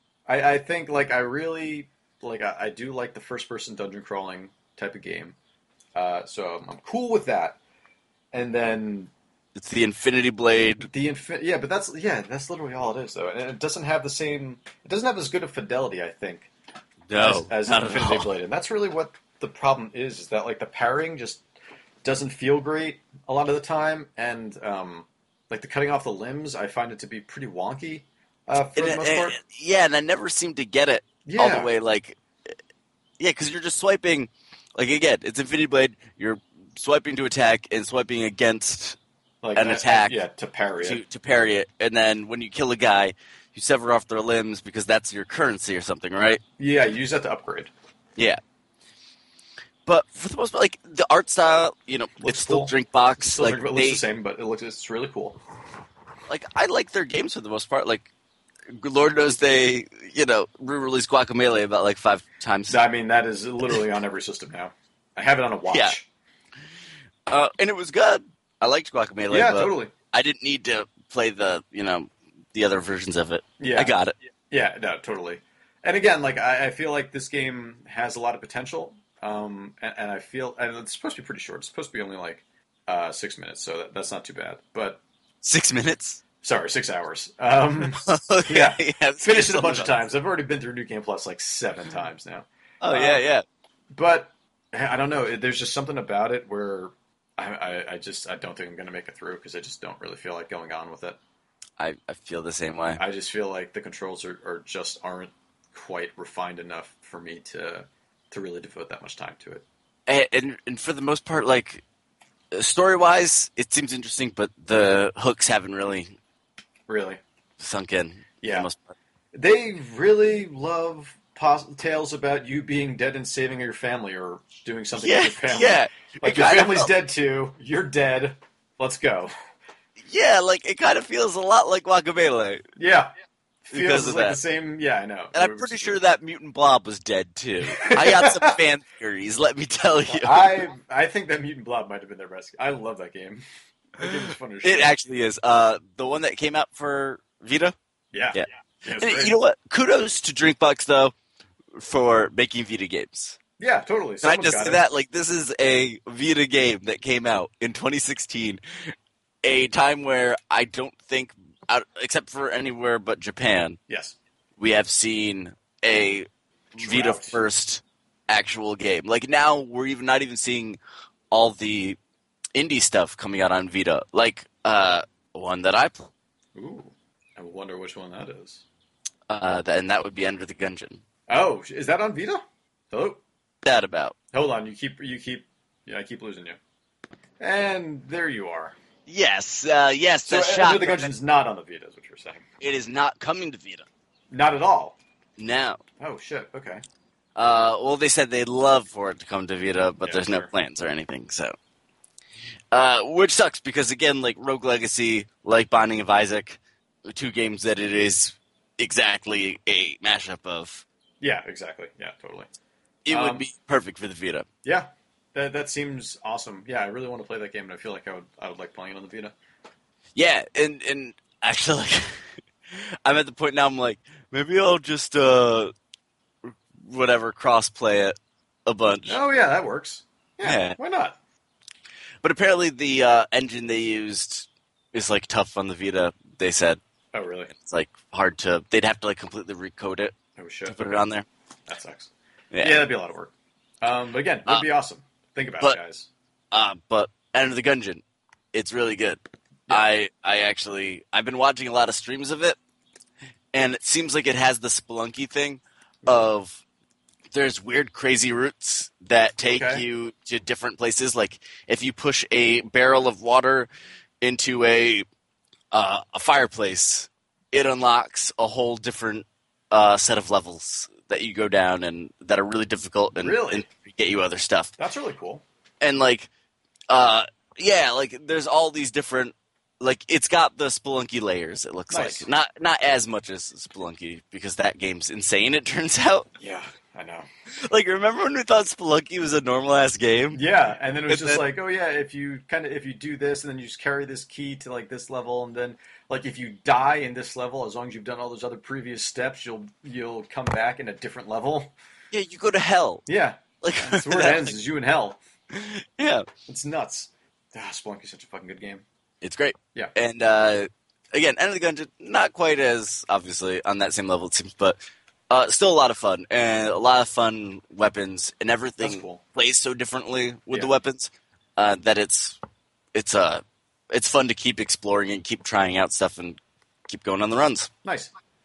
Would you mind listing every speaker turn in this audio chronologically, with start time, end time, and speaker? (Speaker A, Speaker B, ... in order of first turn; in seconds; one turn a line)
Speaker A: 0.3-5.4
Speaker A: 6.0-7.6
Speaker A: 8.3-9.1
Speaker B: 9.6-10.9
Speaker A: 10.8-16.5
Speaker B: 17.1-18.3
Speaker A: 17.2-21.4
Speaker A: 22.0-29.4
Speaker B: 28.8-32.6
Speaker A: 31.2-31.7
Speaker B: 33.2-39.0
Speaker A: 39.4-41.0
Speaker B: 39.5-40.2
Speaker B: 40.8-46.4
Speaker A: 46.6-47.7
Speaker B: 49.9-54.0
Speaker A: 52.2-55.4
Speaker B: 56.3-58.1
Speaker B: 58.7-62.8
Speaker A: 62.7-66.1
Speaker B: 65.7-66.0
Speaker B: 67.3-74.1
Speaker A: 69.3-69.9
Speaker A: 73.6-73.9
Speaker A: 74.5-85.0
Speaker B: 85.4-86.2
Speaker A: 86.4-93.2
Speaker B: 87.9-90.0
Speaker B: 92.8-93.4
Speaker A: 93.9-101.2
Speaker B: 101.8-103.0
Speaker A: 103.0-109.7
Speaker B: 110.1-111.8
Speaker B: 112.5-116.2
Speaker A: 116.9-117.2
Speaker B: 117.6-119.0
Speaker A: 118.4-118.7
Speaker A: 119.3-129.3
Speaker B: 125.0-126.9
Speaker B: 130.1-132.6
Speaker A: 132.8-133.1
Speaker A: 133.7-136.0
Speaker B: 133.7-134.4
Speaker B: 135.3-140.7
Speaker A: 137.7-138.6
Speaker A: 140.1-143.4
Speaker A: 143.9-144.9
Speaker B: 144.0-147.7
Speaker A: 148.1-149.4
Speaker B: 148.3-151.1
Speaker B: 151.8-153.4
Speaker A: 153.6-154.8
Speaker B: 154.2-158.6
Speaker B: 159.4-163.8
Speaker A: 163.9-164.2
Speaker B: 164.6-170.8
Speaker A: 166.8-167.4
Speaker B: 171.3-172.0
Speaker B: 172.6-176.1
Speaker A: 176.6-178.6
Speaker B: 179.3-181.0
Speaker A: 181.3-183.2
Speaker B: 183.6-184.2
Speaker A: 184.3-186.6
Speaker A: 187.4-188.8
Speaker B: 189.1-191.1
Speaker A: 190.3-192.4
Speaker B: 192.6-193.9
Speaker A: 194.3-195.0
Speaker B: 195.4-195.8
Speaker A: 196.0-196.8
Speaker B: 197.4-201.6
Speaker A: 200.0-200.5
Speaker B: 202.7-210.8
Speaker A: 211.2-212.5
Speaker B: 213.1-214.5
Speaker A: 213.1-213.5
Speaker A: 214.6-219.3
Speaker B: 220.2-222.2
Speaker B: 222.7-225.7
Speaker B: 226.4-229.2
Speaker A: 229.1-231.2
Speaker B: 230.4-230.8
Speaker B: 232.2-236.8
Speaker A: 237.1-237.5
Speaker B: 237.5-240.2
Speaker A: 240.4-240.8
Speaker B: 240.7-241.3
Speaker A: 241.7-246.1
Speaker B: 242.5-242.8
Speaker B: 246.5-252.6
Speaker B: 253.5-256.6
Speaker A: 256.0-256.3
Speaker B: 257.3-263.7
Speaker A: 259.5-259.8
Speaker B: 264.2-265.1
Speaker B: 265.7-274.7
Speaker A: 273.2-273.7
Speaker A: 274.8-275.4
Speaker B: 275.8-276.3
Speaker B: 276.9-286.3
Speaker A: 281.9-282.3
Speaker A: 286.4-287.3
Speaker B: 287.6-290.4
Speaker A: 290.3-301.7
Speaker B: 291.1-291.4
Speaker B: 302.1-303.0
Speaker A: 303.1-305.2
Speaker B: 303.6-304.6
Speaker B: 305.5-306.3
Speaker A: 306.5-308.8
Speaker B: 309.2-314.8
Speaker B: 315.3-322.4
Speaker A: 318.8-319.2
Speaker B: 322.9-327.7
Speaker A: 327.8-328.1